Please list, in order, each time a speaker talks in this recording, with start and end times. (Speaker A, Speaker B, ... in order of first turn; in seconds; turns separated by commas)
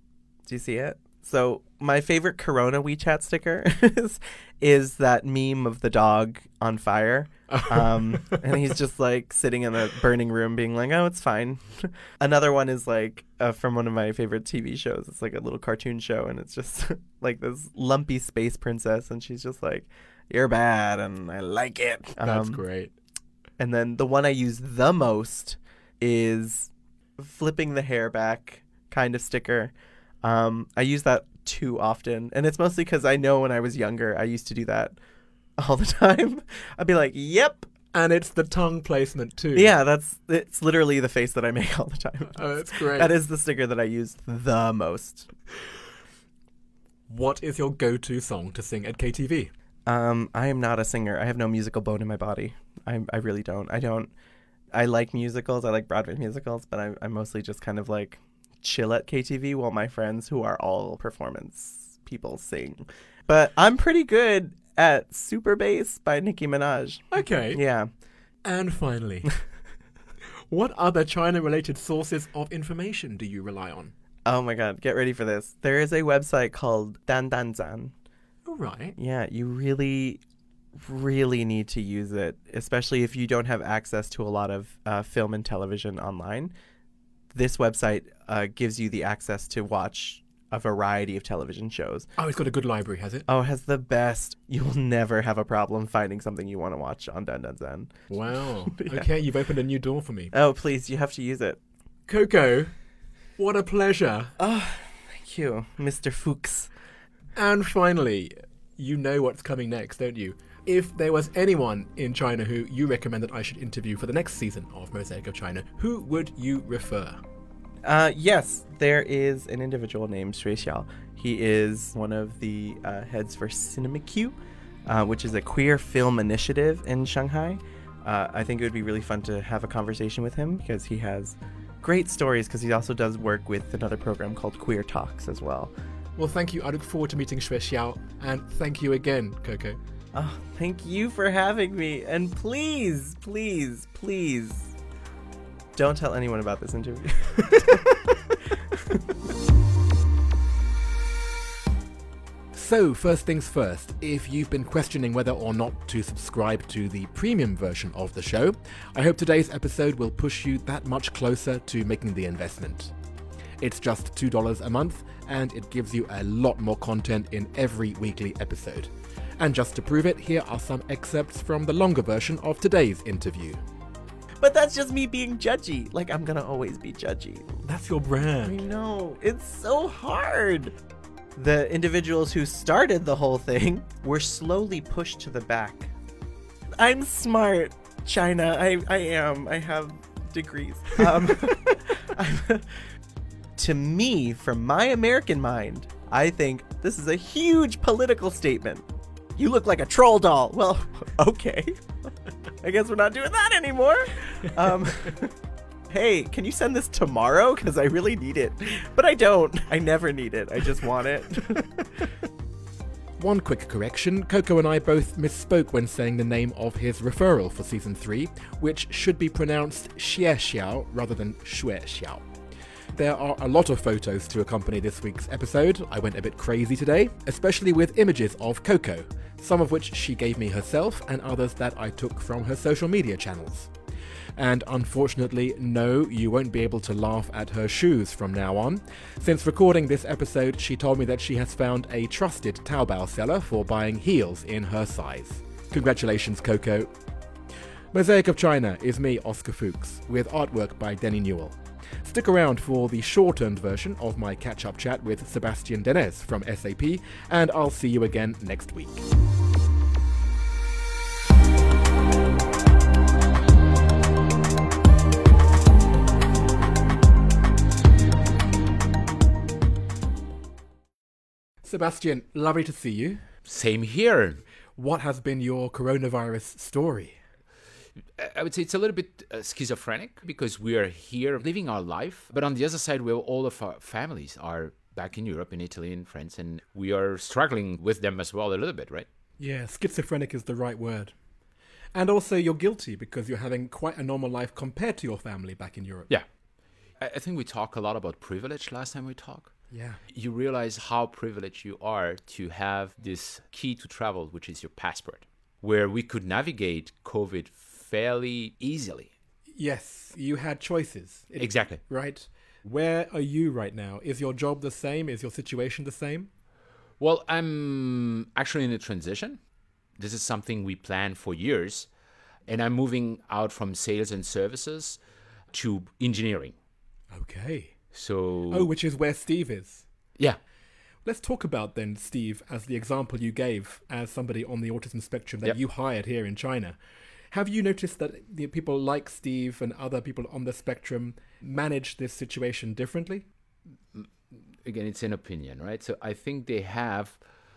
Speaker A: 0.5-22.6, Speaker B: 7.5-8.5, Speaker B: 22.2-22.9, Speaker A: 23.6-29.7, Speaker A: 30.2-35.0, Speaker A: 35.6-37.7, Speaker B: 37.9-39.7, Speaker A: 39.5-45.3, Speaker B: 42.3-43.1, Speaker B: 47.1-49.5, Speaker A: 49.9-54.1, Speaker A: 54.7-67.9, Speaker B: 67.1-67.6, Speaker B: 68.4-69.5, Speaker B: 70.5-73.9, Speaker A: 74.2-77.9, Speaker B: 78.4-78.9, Speaker A: 79.0-80.2, Speaker A: 80.8-86.5, Speaker A: 87.3-92.1, Speaker B: 92.2-93.2, Speaker A: 93.3-97.9, Speaker B: 98.1-100.3, Speaker A: 98.7-99.0, Speaker A: 100.3-101.6, Speaker B: 102.1-102.7, Speaker B: 103.4-104.3, Speaker A: 104.4-106.7, Speaker B: 107.3-117.2, Speaker A: 117.8-124.3, Speaker A: 124.9-135.7, Speaker B: 136.2-139.8, Speaker A: 140.1-144.7, Speaker A: 145.8-147.8, Speaker B: 152.5-162.9, Speaker B: 163.6-173.6, Speaker A: 174.4-177.6, Speaker B: 177.6-178.6, Speaker A: 178.4-180.7, Speaker A: 181.3-185.9, Speaker A: 186.8-192.9, Speaker A: 193.6-198.8, Speaker A: 199.4-201.8, Speaker A: 202.6-205.3, Speaker A: 205.9-211.7, Speaker B: 213.2-222.2, Speaker B: 222.9-233.7, Speaker B: 234.4-246.9, Speaker B: 247.9-259.1, Speaker B: 271.6-273.2, Speaker C: 273.4-274.4, Speaker B: 274.8-277.1, Speaker C: 278.2-289.1, Speaker B: 289.4-291.1, Speaker B: 291.9-296.1, Speaker C: 297.0-299.5, Speaker B: 299.7-300.0, Speaker C: 300.1-309.1, Speaker B: 309.6-316.3, Speaker C: 311.4-311.8, Speaker C: 317.0-319.4, Speaker C: 320.0-321.9, Speaker C: 322.4-325.0, Speaker C: 325.5-326.5, Speaker B: 327.1-327.8, Speaker C: 327.9-328.7, Speaker B: 328.5-329.8, Speaker B: 331.0-336.8, Speaker B: 337.3-343.2, Speaker C: 343.9-347.2